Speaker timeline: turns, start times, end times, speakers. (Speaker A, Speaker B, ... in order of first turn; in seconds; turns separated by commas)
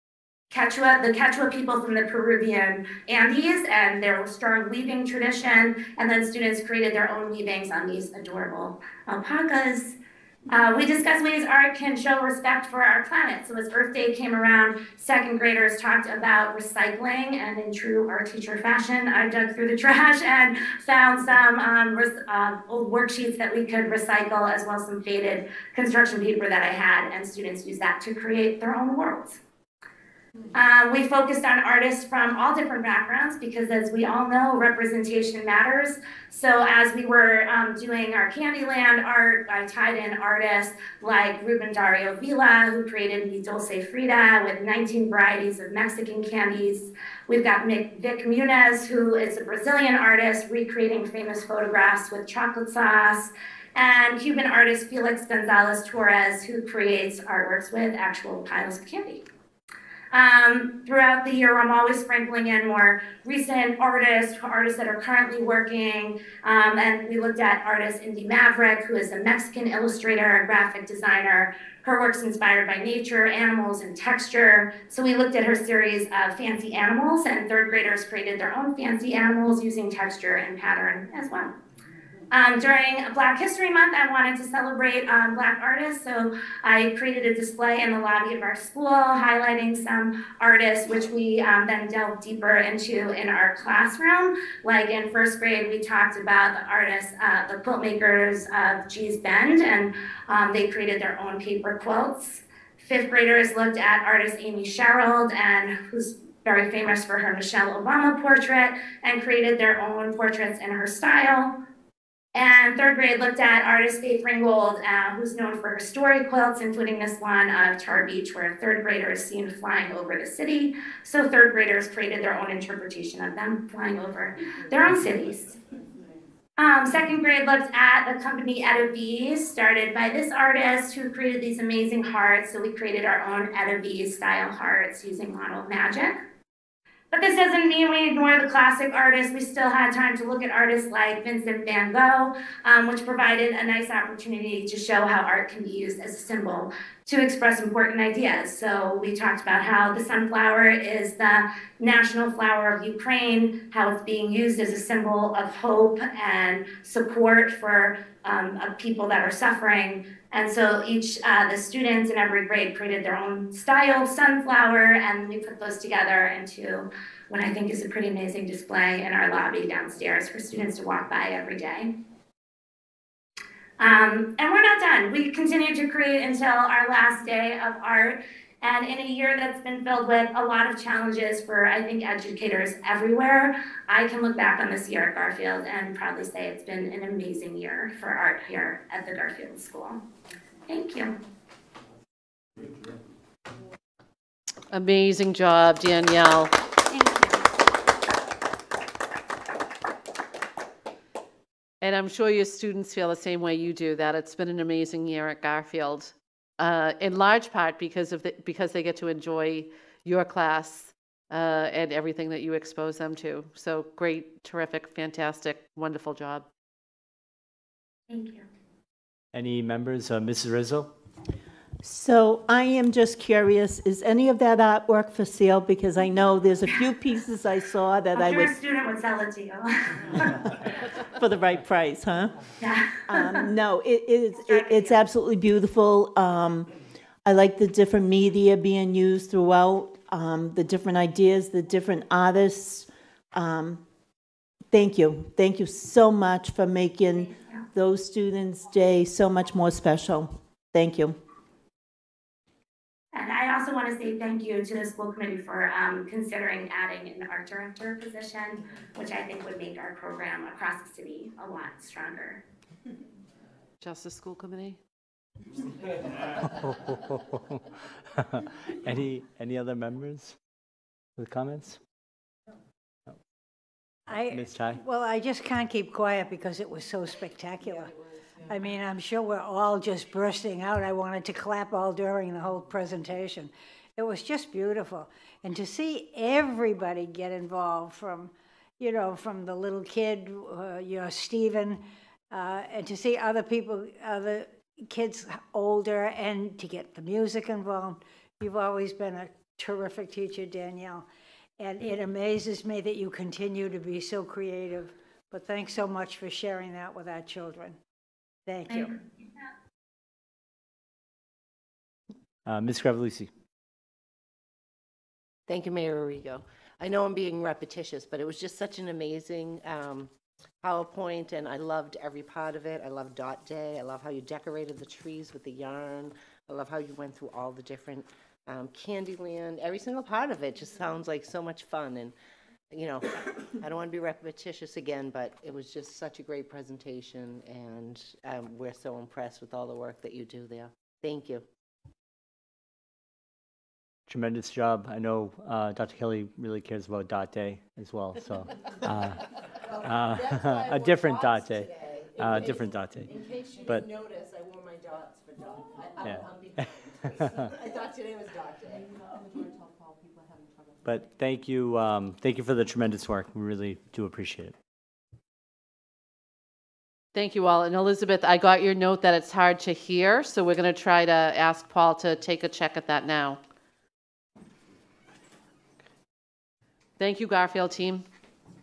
Speaker A: 0.5-9.9, Speaker A: 10.5-29.4, Speaker A: 30.5-59.2, Speaker A: 60.1-81.5, Speaker A: 82.3-111.5, Speaker A: 112.3-125.5, Speaker A: 126.6-136.2, Speaker A: 137.1-171.9, Speaker A: 173.8-190.0, Speaker A: 190.7-191.1, Speaker B: 194.7-196.5, Speaker B: 201.8-216.4, Speaker A: 218.1-218.4, Speaker C: 219.3-220.9, Speaker D: 221.8-228.6, Speaker A: 228.1-230.4, Speaker D: 231.2-232.4, Speaker A: 232.6-233.5, Speaker D: 233.1-236.7, Speaker A: 234.4-235.0, Speaker D: 237.2-243.8, Speaker D: 244.7-251.2, Speaker A: 253.1-262.4, Speaker B: 263.8-264.8, Speaker C: 266.4-267.6, Speaker C: 268.3-270.4, Speaker C: 271.2-271.8, Speaker E: 274.1-277.9, Speaker C: 274.3-274.8, Speaker F: 277.6-278.6, Speaker E: 278.4-301.1, Speaker E: 301.6-307.8, Speaker E: 308.4-308.9, Speaker A: 308.7-309.0, Speaker C: 312.4-313.3, Speaker G: 315.5-320.1, Speaker G: 320.6-332.1, Speaker G: 332.7-341.4, Speaker C: 344.1-349.2, Speaker F: 349.7-361.1, Speaker C: 349.8-353.1, Speaker C: 360.8-364.5, Speaker B: 367.1-373.4, Speaker B: 377.0-378.1